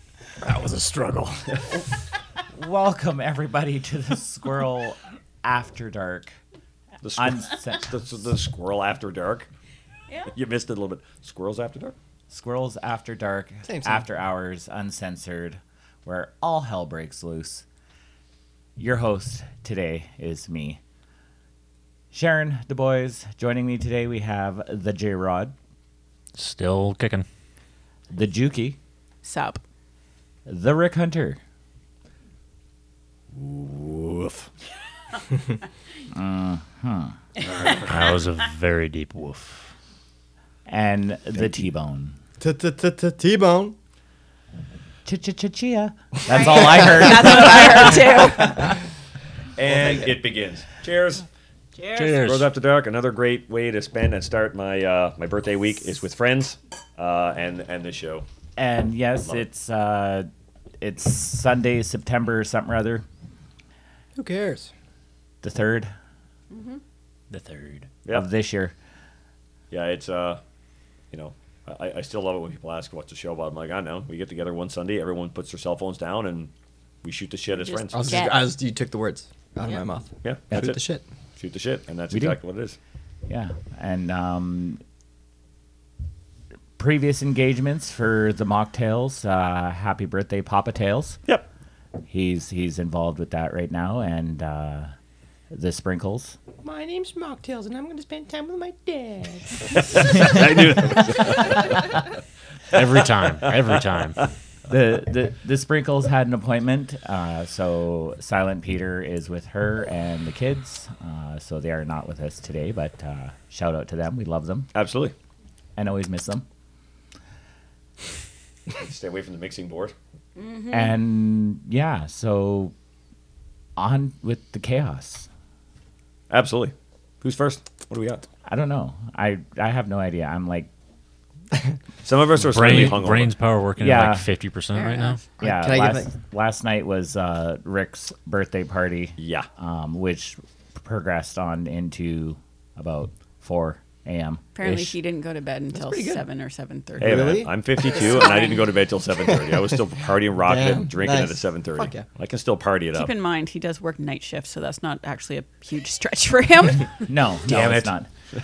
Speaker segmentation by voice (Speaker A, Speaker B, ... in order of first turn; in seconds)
Speaker A: 0.4-1.4, 13.7-14.0, 42.4-43.8, 46.3-48.5, 49.7-50.1, 64.2-64.7, 77.9-81.0, 96.6-99.7, 135.4-136.1, 147.0-148.5, 150.4-152.1
Speaker B: 2.5-6.3, 7.2-7.9, 12.3-17.6, 18.8-20.8, 22.1-25.6, 28.1-28.8, 30.5-31.4, 36.1-37.1, 40.7-42.2, 45.0-48.4, 58.6-60.3, 60.8-63.0, 65.4-65.9, 68.1-68.8, 82.1-82.4, 83.3-84.8, 86.8-91.2, 92.1-94.9, 95.5-96.4, 104.7-114.7, 115.8-116.5, 120.7-122.7, 123.8-125.3, 128.5-130.7, 133.8-134.3, 135.4-145.0, 157.1-158.1
Speaker C: 7.0-9.5, 10.3-11.9, 33.4-34.5, 49.6-51.2, 52.0-58.2, 69.7-70.4, 71.1-76.5, 77.0-78.4, 80.2-80.8, 81.4-82.8, 99.7-101.8, 103.4-103.7, 114.7-115.1, 118.8-119.9, 126.3-128.3, 132.0-133.3, 139.2-139.5, 147.0-153.1, 157.5-157.9
Speaker D: 26.4-27.3, 37.8-39.7, 51.9-52.5, 67.3-67.9, 102.7-104.2, 132.4-135.2
Speaker E: 29.2-29.6, 46.3-48.7, 51.8-52.2, 66.5-66.8, 77.6-78.5, 120.4-120.8, 134.8-135.2, 144.6-147.4, 147.9-148.7, 152.9-156.9